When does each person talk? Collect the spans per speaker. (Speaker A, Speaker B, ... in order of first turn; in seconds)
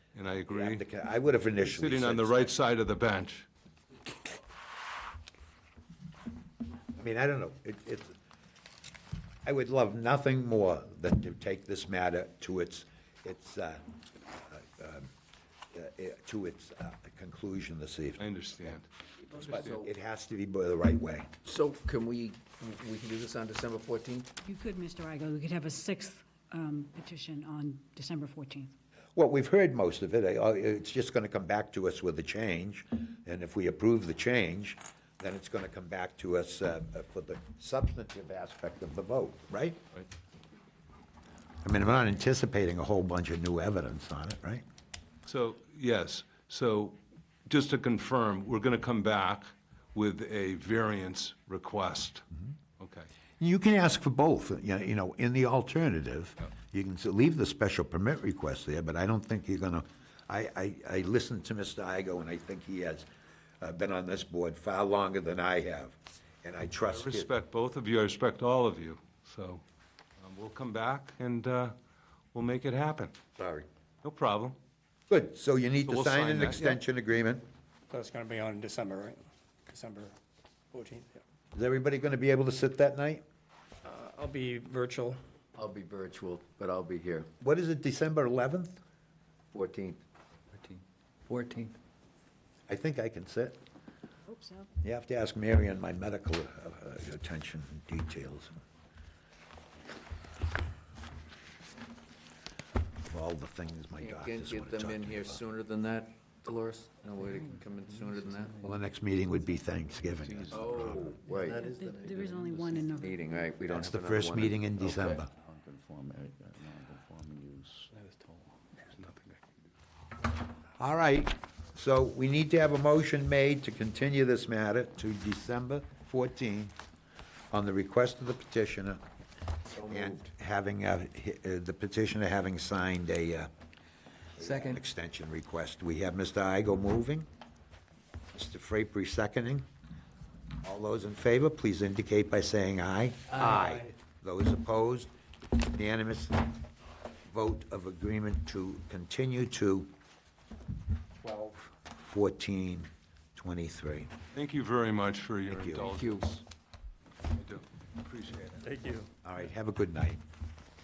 Speaker A: 0.1-0.8, 1.6-3.5, 18.2-18.8, 19.4-19.7, 45.2-52.2, 52.8-53.1, 66.8-69.6, 70.2-71.7, 72.3-73.2, 74.0-74.6, 75.9-76.8, 154.3-156.4, 157.3-158.8
Speaker B: 0.5-2.6, 7.0-8.1, 9.4-13.8, 14.4-15.1, 15.7-18.8, 19.3-21.3, 29.1-39.8, 41.6-44.6, 53.4-63.0, 63.6-67.3, 75.1-77.5, 81.5-83.2, 87.4-88.8, 92.7-93.6, 94.8-98.6, 103.0-105.4, 108.6-111.2, 113.7-115.3, 120.8-126.7, 127.5-129.0, 129.8-133.5, 134.4-137.3, 138.3-139.6, 140.6-146.4, 147.2-149.9, 151.3-154.1, 155.5-155.9, 159.2-160.2
Speaker C: 19.4-19.9, 21.4-24.3, 85.5-87.3, 89.5-90.0, 90.5-91.8, 104.0-108.6, 110.5-115.2, 129.7-130.1, 134.4-134.8, 155.9-156.2
Speaker D: 24.4-28.7, 94.3-94.7, 111.4-113.3
Speaker E: 77.9-80.1, 80.7-81.2, 83.8-85.2, 158.6-159.1
Speaker F: 110.2-111.3, 115.3-119.4